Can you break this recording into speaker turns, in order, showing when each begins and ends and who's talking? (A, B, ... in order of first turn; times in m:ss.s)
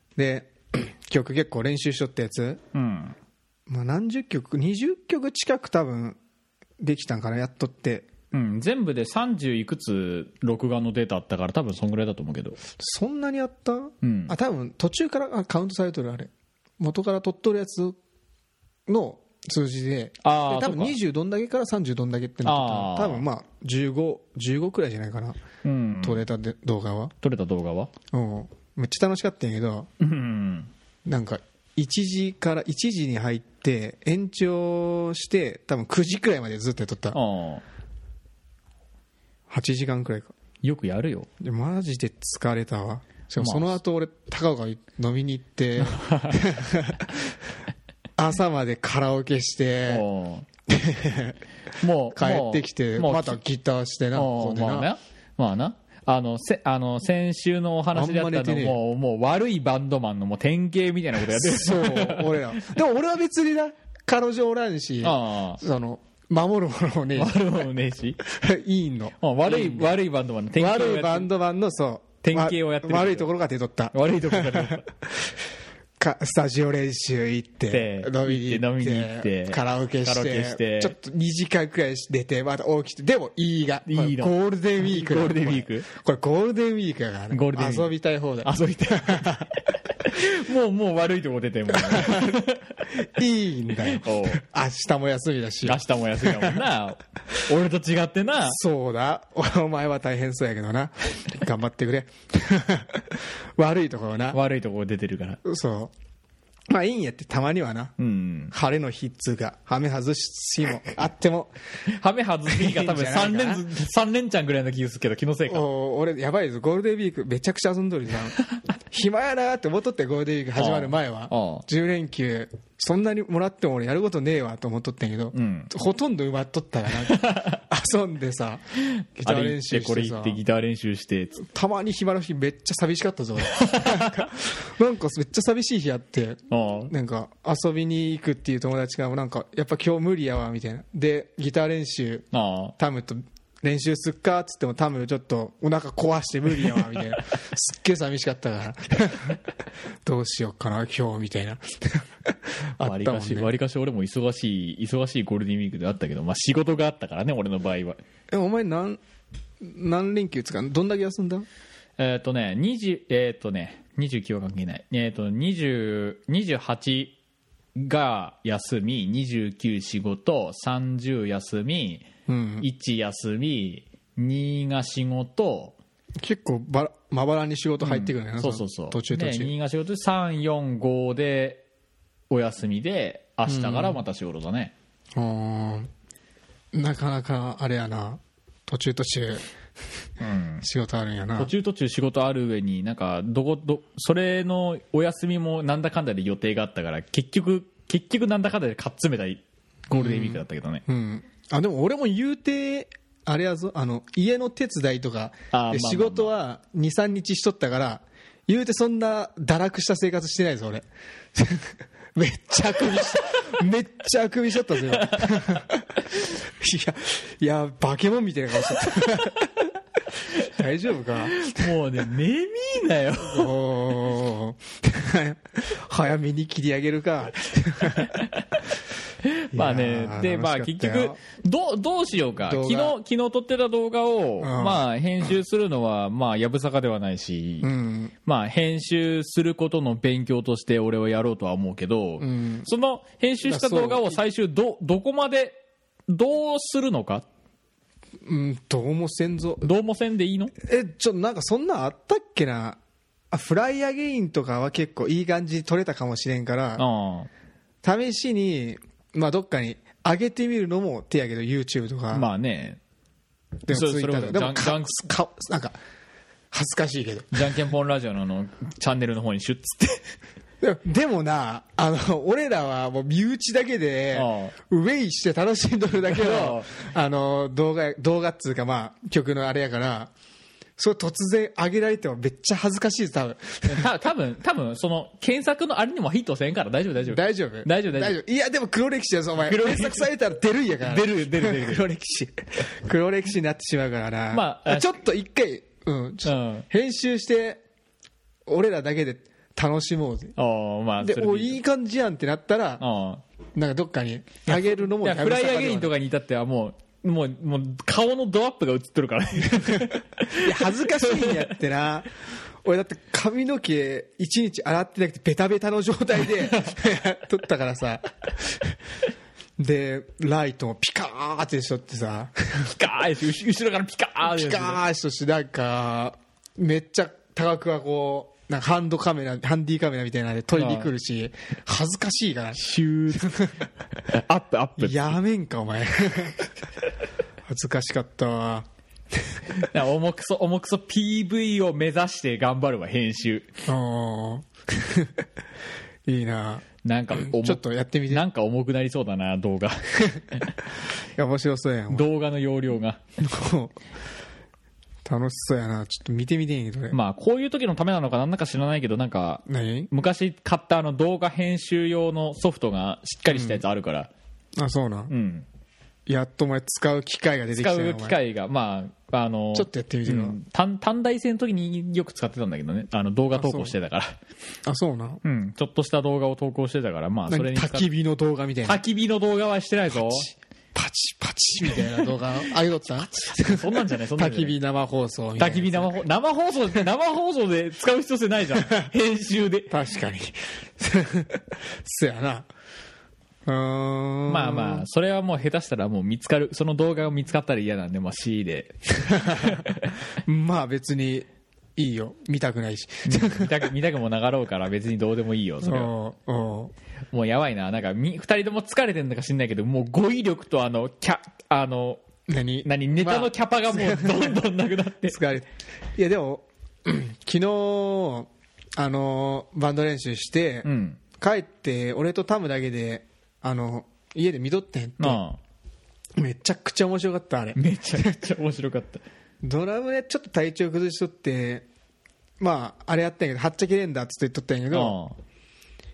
0:00.2-0:02.6 A
0:02.7-0:03.2 B
0:03.7-0:06.2 A
0:06.8-0:08.1 A
0:08.3-0:12.6 B
0:12.8-0:18.0 A
0:14.0-0:14.3 B
0:18.9-0:25.4 A
0:20.2-0:21.0 B
0:22.4-0:23.2 B
0:25.6-0:26.2 B
0:26.0-0:27.1 A
0:27.2-0:27.9 B
0:28.1-0:29.9 A
0:30.0-0:30.7 B
0:31.0-0:37.2 A
0:37.1-0:37.6 B
0:39.5-0:40.3 A
0:40.6-0:41.3 B
0:41.4-0:47.2 A
0:43.4-0:43.8 B
0:45.8-0:46.4 B
0:48.2-0:50.0 A
0:49.9-0:50.4 B
0:50.7-0:51.4 A
0:51.8-0:53.4 B
0:52.1-0:54.9 A
0:54.1-1:02.6 B
0:57.9-0:58.8 A
1:01.2-1:07.5 A
1:05.0-1:05.6 B
1:07.1-1:08.2 B
1:08.2-1:10.0 A
1:09.2-1:11.3 B
1:10.5-1:15.4 A
1:12.2-1:13.3 B
1:13.9-1:14.8 B
1:16.0-1:29.5 A
1:17.7-1:20.9 B
1:23.9-1:25.9 B
1:27.3-1:27.9 B
1:28.4-1:32.8 B
1:31.7-1:36.7 A
1:33.8-1:34.4 B
1:35.6-1:38.6 B
1:38.4-1:44.4 A
1:44.3-1:45.4 B
1:45.4-1:45.9 A
1:46.7-1:47.9 A
1:48.0-1:48.5 B
1:48.5-1:51.5 A
1:51.9-1:55.6 B
1:52.4-1:53.6 A
1:55.5-1:58.4 A
1:58.9-2:08.6 A
2:00.6-2:01.6 B
2:05.3-2:05.7 B
2:06.9-2:07.6 B
2:09.2-2:10.4 A
2:09.2-2:11.4 B
2:11.3-2:22.3 A
2:13.6-2:14.2 B
2:16.5-2:16.9 B
2:22.3-2:22.7 B
2:22.8-2:29.4 A
2:30.0-2:33.5 A
2:32.8-2:38.0 B
2:38.3-2:39.0 A
2:39.6-2:41.4 A
2:42.0-2:47.2 B
2:47.8-2:52.1 B
2:52.3-2:52.7 A
2:52.6-2:55.8 B
2:56.2-2:59.5 A
2:57.8-3:01.6 B
3:02.3-3:04.7 B
3:03.4-3:04.0 A
3:05.1-3:05.9 A
3:06.7-3:09.4 A
3:10.2-3:10.6 B
3:10.6-3:11.5 A
3:11.4-3:20.8 B
3:19.9-3:39.7 A
3:25.5-3:26.3 B
3:34.8-3:35.4 B
3:38.8-3:39.1 B
3:40.3-3:41.8 A
3:41.4-3:43.5 B
3:43.2-3:48.3 A
3:48.0-3:48.6 B
3:49.2-3:57.7 B
3:49.5-3:51.2 A
3:52.4-3:53.0 A
3:54.4-3:54.8 A
3:57.6-3:58.1 A
3:58.2-4:07.2 B
4:02.2-4:02.7 A
4:03.4-4:04.2 A
4:08.2-4:09.7 A
4:09.6-4:10.5 B
4:10.6-4:12.8 A
4:13.3-4:16.8 A
4:16.8-4:17.3 B
4:17.8-4:22.3 A
4:22.1-4:22.8 B
4:23.6-4:25.8 A
4:23.7-4:25.1 B
4:26.5-4:27.5 A
4:27.3-4:30.1 B
4:30.6-4:40.1 A
4:34.1-4:34.5 B
4:36.1-4:36.7 B
4:40.8-4:43.9 A
4:43.6-4:48.2 B
4:47.0-4:57.6 A
4:49.4-4:50.1 B
4:50.8-4:51.8 B
4:54.3-4:54.9 B
4:56.2-4:56.7 B
4:58.5-5:00.3 A
5:00.4-5:01.6 B
5:01.0-5:02.8 A
5:02.8-5:03.2 B
5:03.6-5:05.9 A
5:04.5-5:11.6 B
5:09.6-5:18.7 A
5:19.6-5:22.8 A
5:22.7-5:24.8 B
5:24.2-5:33.6 A
5:30.5-5:30.9 B
5:32.6-5:33.4 B
5:34.0-5:35.2 B
5:34.8-5:36.6 A
5:37.4-5:38.6 A
5:39.6-5:43.5 B
5:43.7-5:45.2 A
5:46.1-5:48.2 A
5:46.8-5:50.5 B
5:51.2-5:52.1 A
5:51.9-5:53.0 B
5:53.2-5:53.8 A
5:55.0-5:57.0 A
5:56.9-6:04.1 B
5:59.5-5:59.9 A
6:03.3-6:03.6 A
6:04.6-6:05.1 A
6:05.1-6:05.4 B
6:06.1-6:08.2 A
6:07.5-6:14.2 B
6:09.5-6:10.4 A
6:13.3-6:13.7 A
6:14.6-6:15.2 A
6:15.2-6:17.9 B
6:17.3-6:18.8 A
6:18.6-6:20.3 B
6:19.9-6:26.0 A
6:23.0-6:24.6 B
6:25.4-6:29.7 B
6:28.5-6:28.9 A
6:29.7-6:32.5 A
6:33.4-6:34.9 A
6:34.3-6:40.0 B
6:39.1-6:39.6 A
6:40.2-6:43.7 A
6:43.0-6:45.9 B
6:45.6-6:46.7 A
6:47.1-6:52.0 B
6:52.3-6:54.4 A
6:52.6-6:55.2 B
6:55.0-7:05.2 A
7:00.6-7:01.0 B
7:05.0-7:05.4 B
7:06.2-7:08.3 A
7:07.6-7:09.0 B
7:09.4-7:11.6 A
7:12.4-7:15.0 A
7:14.7-7:15.2 B